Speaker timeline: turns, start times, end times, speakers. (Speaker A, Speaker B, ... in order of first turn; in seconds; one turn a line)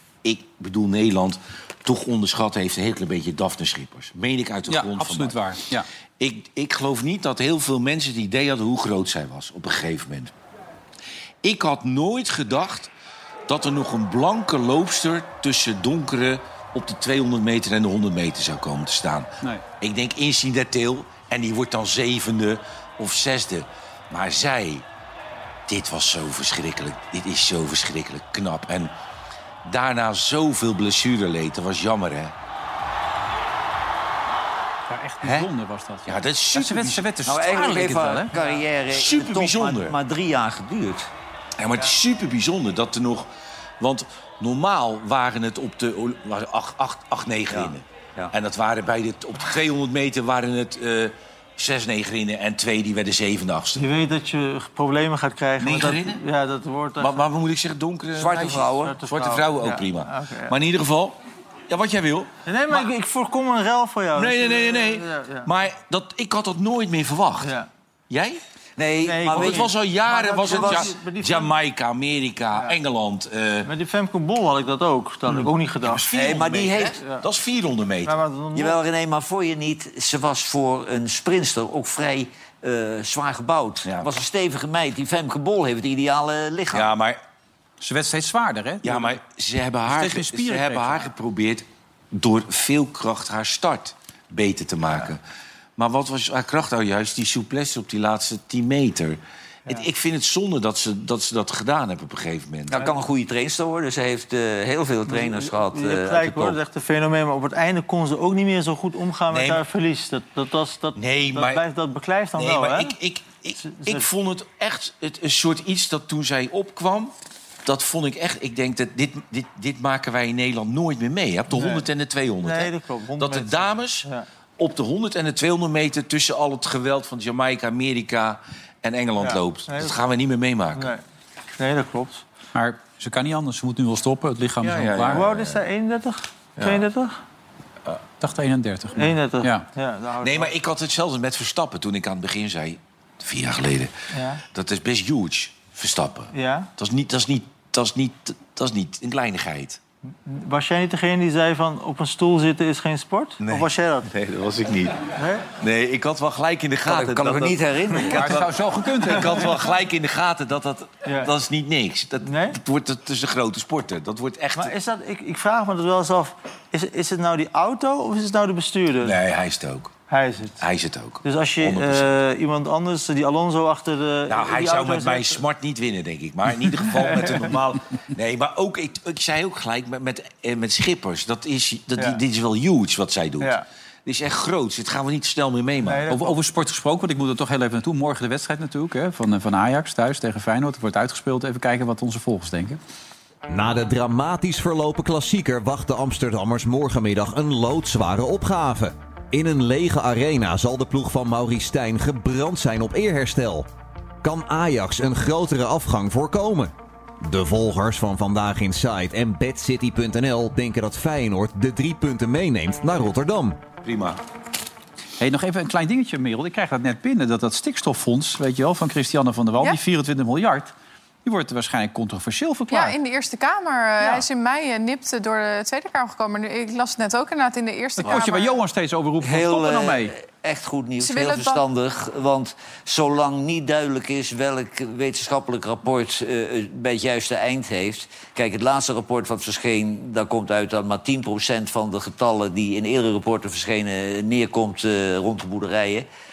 Speaker A: 0.2-5.6
Speaker B: 4.7-5.9
Speaker A: 6.2-10.3
Speaker A: 11.4-12.9
Speaker A: 13.5-24.8
Speaker A: 25.7-28.9
Speaker A: 29.6-32.3
Speaker B: 34.9-38.3
Speaker A: 36.0-37.1
Speaker C: 37.2-41.1
Speaker A: 38.9-40.0
Speaker A: 41.6-43.3
Speaker A: 43.8-53.9
Speaker C: 47.5-48.3
Speaker D: 53.8-57.2
Speaker A: 55.6-56.2
Speaker A: 57.0-61.1
Speaker C: 58.1-59.0
Speaker D: 58.8-60.5
Speaker A: 61.7-62.8
Speaker D: 62.5-65.5
Speaker A: 64.1-67.5
Speaker D: 67.4-67.7
Speaker A: 68.1-68.4
Speaker C: 68.8-69.7
Speaker D: 69.0-71.5
Speaker A: 69.2-73.7
Speaker C: 70.5-70.9
Speaker D: 73.7-76.0
Speaker A: 75.3-78.2
Speaker C: 76.1-77.0
Speaker D: 78.0-78.8
Speaker C: 78.5-86.9
Speaker A: 83.8-84.1
Speaker A: 86.7-87.2
Speaker B: 87.8-89.2
Speaker A: 88.8-95.2
Speaker B: 89.9-91.1
Speaker A: 95.8-102.9
Speaker C: 102.7-106.6
Speaker D: 105.1-113.0
Speaker A: 109.3-109.6
Speaker A: 110.9-111.6
Speaker A: 112.3-117.1
Speaker D: 113.6-114.1
Speaker A: 117.6-130.9
Speaker D: 121.5-121.9
Speaker D: 122.4-124.2
Speaker D: 129.2-130.0
Speaker D: 130.7-131.0
Speaker D: 131.6-132.2
Speaker B: 132.5-135.2
Speaker A: 134.6-135.6
Speaker D: 135.1-137.2
Speaker A: 136.6-136.9
Speaker B: 138.2-139.7
Speaker D: 138.9-140.5
Speaker A: 140.2-143.9
Speaker D: 144.1-144.4
Speaker A: 144.5-149.8
Speaker D: 146.3-146.7
Speaker D: 150.2-154.1
Speaker A: 153.4-155.0
Speaker D: 155.2-155.5
Speaker A: 155.6-157.6
Speaker C: 156.9-158.4
Speaker A: 158.1-164.7
Speaker B: 158.1-159.5
Speaker D: 161.1-161.3
Speaker D: 162.2-162.6
Speaker D: 164.6-169.2
Speaker A: 169.0-169.9
Speaker D: 170.1-170.6
Speaker A: 170.6-172.1
Speaker D: 171.2-175.4
Speaker A: 174.3-186.1
Speaker D: 177.0-177.5
Speaker D: 185.8-186.4
Speaker B: 186.1-192.8
Speaker E: 193.5-203.7
Speaker E: 204.2-213.6
Speaker A: 213.8-214.2
Speaker B: 215.2-220.7
Speaker B: 221.2-222.9
Speaker F: 222.7-228.6
Speaker B: 228.0-230.1
Speaker C: 229.2-246.1
Speaker F: 231.0-231.6